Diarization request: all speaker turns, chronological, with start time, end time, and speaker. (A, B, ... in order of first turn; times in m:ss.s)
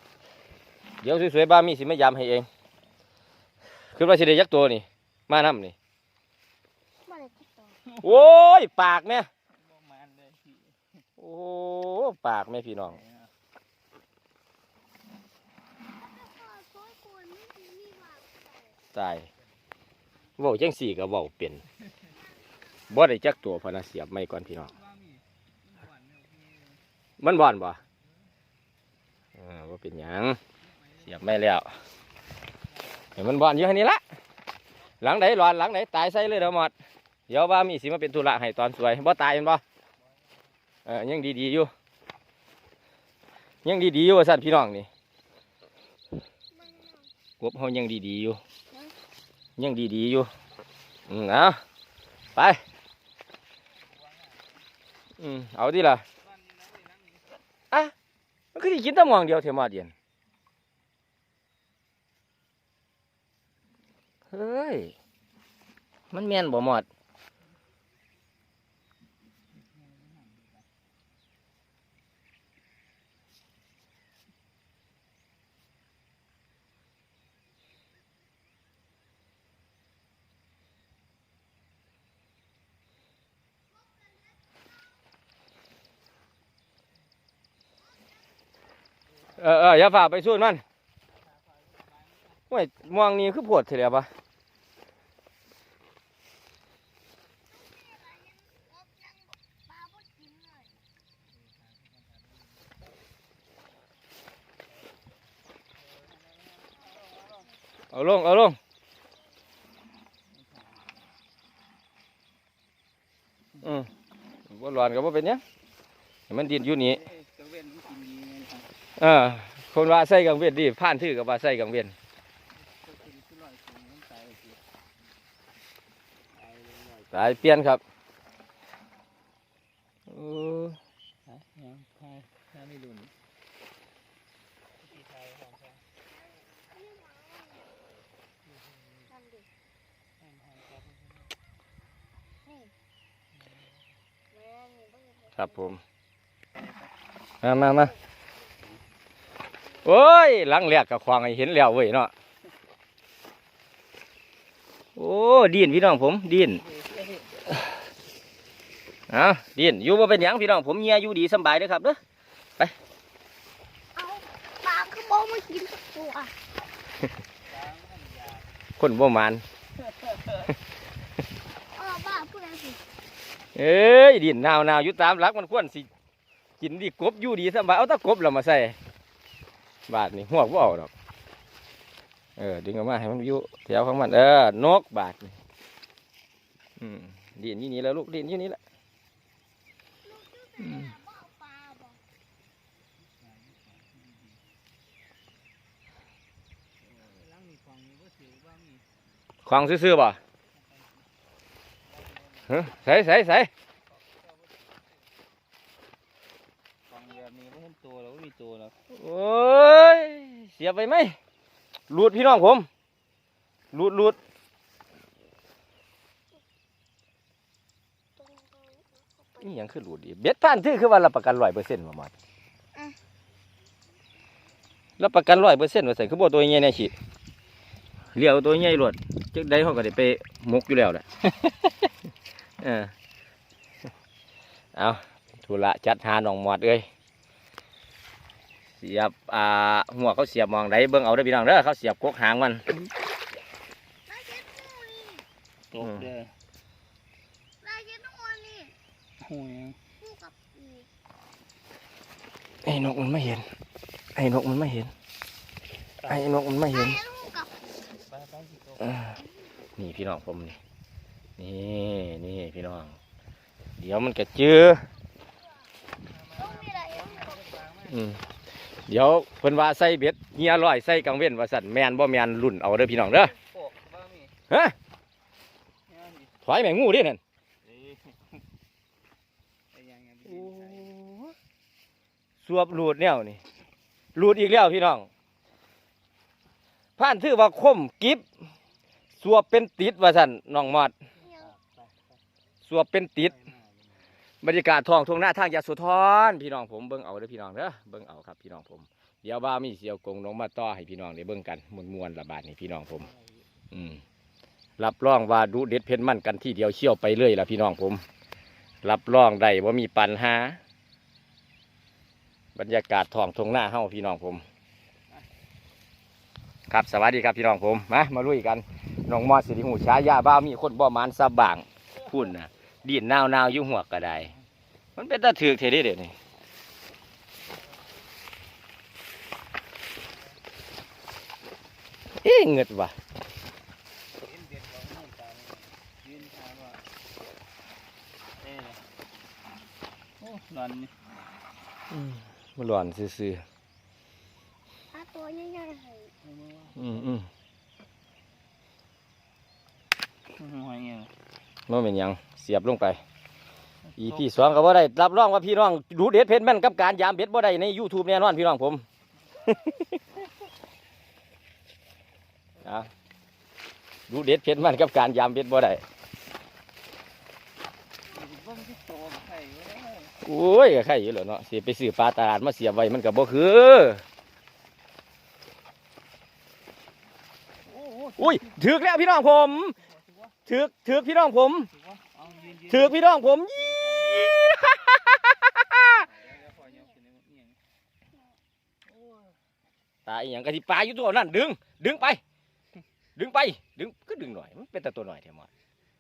0:01.0-0:02.5 A
0:03.9-0:05.8 A
0:07.1-0:07.8 B
0:07.9-0:08.3 C
0:08.0-0:09.3 A
0:09.5-0:10.8 C
0:11.2-0:13.0 A
0:13.0-0:13.3 C
0:16.0-0:18.8 B
0:18.9-0:19.2 A
0:20.4-0:21.6 A
0:22.9-0:24.7 A
0:24.8-0:26.8 C
0:27.2-0:27.8 A
0:29.4-0:30.4 A
0:31.0-0:31.7 A
0:33.2-0:34.0 A
0:35.0-0:36.7 A
0:37.3-0:39.6 A
0:40.9-0:41.7 A
0:43.6-0:44.9 A
0:46.5-0:47.1 B
0:47.4-0:48.4 A
0:49.6-0:50.3 A
0:51.1-0:51.6 A
0:52.4-0:52.6 A
0:55.2-0:56.0 A
0:56.4-0:57.2 C
0:58.6-0:59.9 A
1:04.3-1:04.9 A
1:06.1-1:06.9 A
1:29.4-1:30.6 A
1:31.5-1:32.2 C
1:32.5-1:34.1 A
1:37.5-1:40.7 B
1:46.0-1:47.4 C
1:47.9-1:48.6 A
1:53.6-1:53.9 A
1:54.5-1:55.4 A
1:56.3-1:57.0 A
1:57.0-1:58.7 C
1:59.0-2:01.9 A
2:02.7-2:04.6 C
2:06.4-2:07.5 C
2:07.1-2:07.8 A
2:10.1-2:10.8 A
2:11.3-2:13.1 C
2:14.8-2:15.8 C
2:16.5-2:17.7 B
2:19.1-2:19.5 B
2:20.2-2:20.9 C
2:24.3-2:25.5 B
2:25.4-2:25.8 A
2:27.4-2:27.9 A
2:29.8-2:32.1 A
2:35.0-2:36.6 A
2:39.1-2:42.0 A
2:44.0-2:46.3 B
2:47.5-2:48.4 C
2:48.8-2:49.4 A
2:51.8-2:52.8 B
2:53.6-2:55.9 A
2:56.6-2:58.8 A
2:59.9-3:00.9 A
3:02.4-3:05.4 A
3:06.8-3:08.6 A
3:10.0-3:12.0 B
3:10.6-3:10.9 A
3:13.3-3:14.1 C
3:17.0-3:18.8 C
3:19.5-3:20.2 A
3:22.0-3:22.4 C
3:22.5-3:23.5 A
3:26.9-3:28.7 C
3:28.9-3:31.2 A
3:31.9-3:32.7 A
3:33.7-3:34.2 A
3:38.2-3:39.5 B
3:39.4-3:42.1 A
3:45.0-3:46.9 A
3:48.1-3:51.0 A
3:52.6-3:52.9 A
3:54.8-3:56.9 A
3:58.8-4:02.6 A
4:04.1-4:05.2 B
4:05.7-4:06.3 C
4:05.8-4:06.1 A
4:07.6-4:08.8 B
4:09.2-4:09.8 C
4:10.0-4:10.9 B
4:12.6-4:13.5 A
4:14.1-4:14.9 A
4:16.1-4:17.0 A
4:16.7-4:17.5 B
4:17.9-4:19.2 C
4:19.8-4:20.6 A
4:21.4-4:23.0 A
4:23.8-4:24.8 A
4:26.2-4:27.9 C
4:26.4-4:27.5 B
4:27.9-4:28.2 A
4:28.9-4:33.4 A
4:33.4-4:34.3 C
4:34.5-4:34.8 A
4:35.9-4:36.3 C
4:36.4-4:37.2 A
4:37.7-4:38.0 C
4:39.7-4:40.9 C
4:40.3-4:41.3 A
4:42.4-4:43.4 A
4:44.2-4:45.1 A
4:47.0-4:48.2 A
4:49.2-4:50.9 A
4:51.2-4:51.5 B
4:51.4-4:52.0 C
4:52.6-4:53.4 A
4:54.4-5:03.1 A
5:03.7-5:04.0 A
5:04.8-5:08.0 A
5:08.8-5:10.6 A
5:12.6-5:14.4 A
5:16.7-5:24.3 A
5:25.0-5:26.2 A
5:32.2-5:33.0 A
5:34.2-5:36.8 C
5:38.4-5:38.8 C
5:40.2-5:40.9 C
5:41.9-5:43.4 A
5:44.9-5:46.1 B
5:46.2-5:47.1 C
5:46.8-5:47.3 A
5:50.4-5:51.1 C
5:51.7-5:53.0 A
5:54.0-5:54.2 C
5:54.0-5:58.8 A
5:59.5-5:59.8 A
6:02.6-6:02.9 A
6:04.1-6:05.8 A
6:08.1-6:10.1 C
6:10.2-6:14.0 A
6:17.7-6:18.6 C
6:18.2-6:19.8 A
6:19.6-6:20.3 C
6:20.5-6:21.7 A
6:21.7-6:24.3 C
6:22.7-6:26.0 A
6:25.8-6:27.6 C
6:30.1-6:32.2 A
6:33.2-6:35.5 A